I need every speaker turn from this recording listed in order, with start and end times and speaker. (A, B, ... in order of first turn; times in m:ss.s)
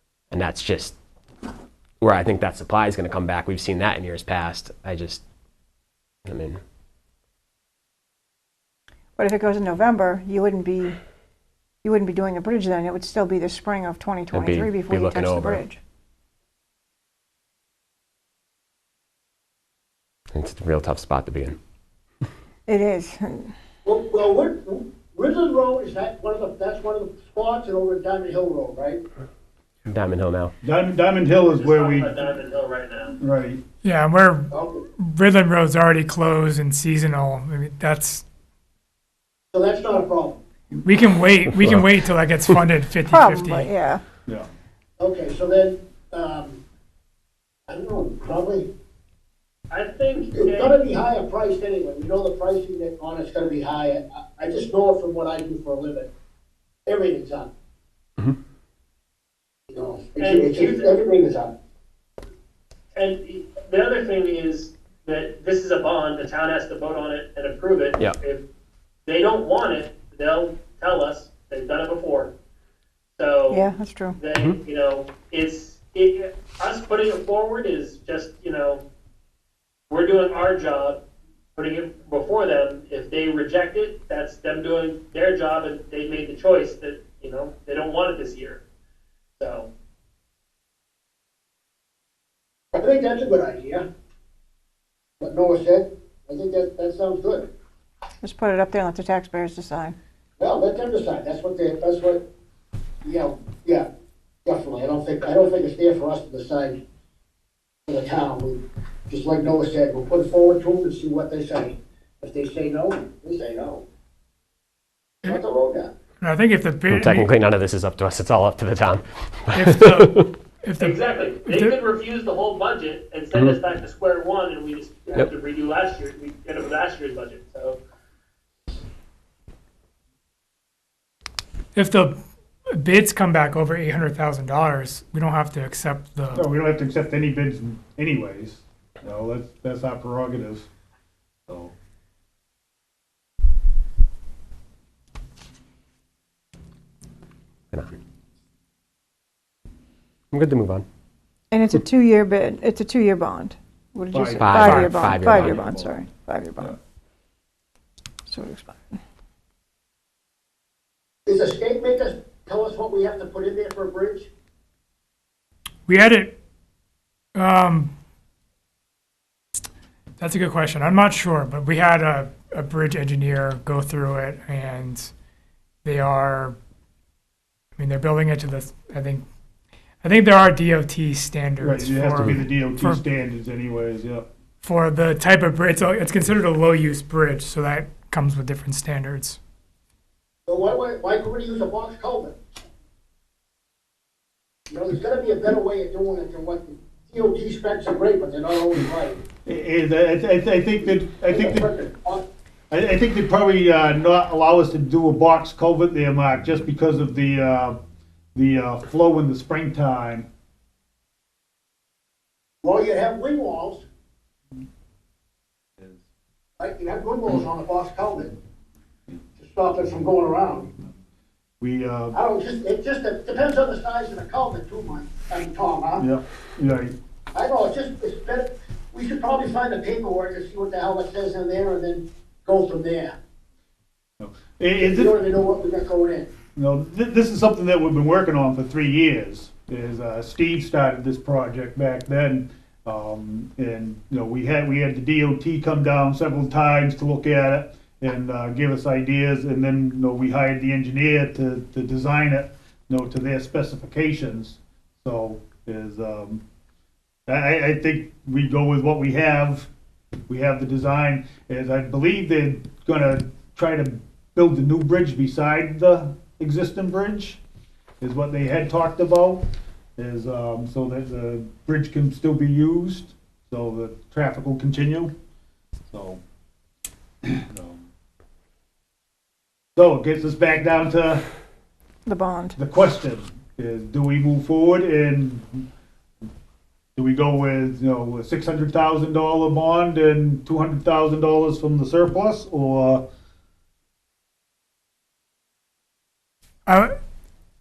0:00.3-0:01.0 A
0:02.0-0:05.2 A
0:06.2-0:06.6 A
0:09.2-0:11.0 B
0:11.8-0:15.8 B
0:14.3-0:15.6 A
0:20.3-0:21.6 A
0:22.7-0:23.5 B
0:23.8-0:29.0 C
0:29.8-0:30.5 A
0:30.6-0:32.2 D
0:31.5-0:33.2 E
0:33.2-0:33.6 D
0:33.8-0:38.2 F
0:34.5-0:34.8 C
0:39.5-0:40.4 C
0:40.8-0:43.7 F
0:43.1-0:44.0 B
0:45.0-0:46.6 C
0:47.7-0:48.7 C
0:49.7-0:50.7 E
0:50.2-0:56.1 C
0:56.8-0:57.5 C
0:59.7-1:01.5 C
1:00.2-1:01.0 E
1:03.0-1:08.4 E
1:09.0-1:12.3 E
1:13.2-1:18.8 E
1:13.5-1:14.2 B
1:19.9-1:21.0 E
1:21.6-1:28.6 E
1:29.4-1:29.7 E
1:32.7-1:33.8 C
1:35.2-1:37.5 C
1:38.2-1:40.0 B
1:40.4-1:42.2 C
1:43.0-1:43.8 C
1:44.4-1:46.8 C
1:47.9-1:53.8 C
1:55.2-1:55.9 C
1:56.2-1:57.3 F
1:56.9-2:00.2 A
1:59.5-2:01.8 F
2:00.8-2:07.8 E
2:11.7-2:12.2 F
2:12.7-2:16.4 F
2:16.3-2:20.7 D
2:21.5-2:21.7 D
2:30.3-2:30.8 A
2:31.5-2:36.8 B
2:34.1-2:36.0 D
2:34.4-2:35.6 A
2:38.2-2:39.0 B
2:41.2-2:44.3 C
2:45.9-2:46.4 F
2:47.3-2:47.9 F
2:50.2-2:55.1 F
2:55.8-2:56.6 F
2:57.8-2:59.2 F
3:00.0-3:03.0 F
3:01.6-3:04.2 D
3:04.6-3:09.4 F
3:10.5-3:12.4 C
3:14.7-3:19.2 C
3:19.4-3:21.6 D
3:21.3-3:22.2 C
3:22.7-3:27.8 D
3:28.3-3:30.3 D
3:32.6-3:33.8 C
3:36.6-3:38.4 C
3:39.4-3:40.7 C
3:41.6-3:42.1 D
3:42.1-3:46.0 C
3:46.0-3:47.0 D
3:47.3-3:53.1 C
3:54.2-3:55.1 D
3:54.8-3:56.3 C
3:56.6-4:16.4 D
4:17.3-4:19.7 D
4:20.3-4:27.4 D
4:28.0-4:35.1 D
4:35.9-4:36.2 D
4:37.2-4:37.8 D
4:39.8-4:41.2 D
4:42.0-4:42.6 B
4:42.6-4:45.6 D
4:47.0-4:53.0 D
4:56.6-4:56.9 F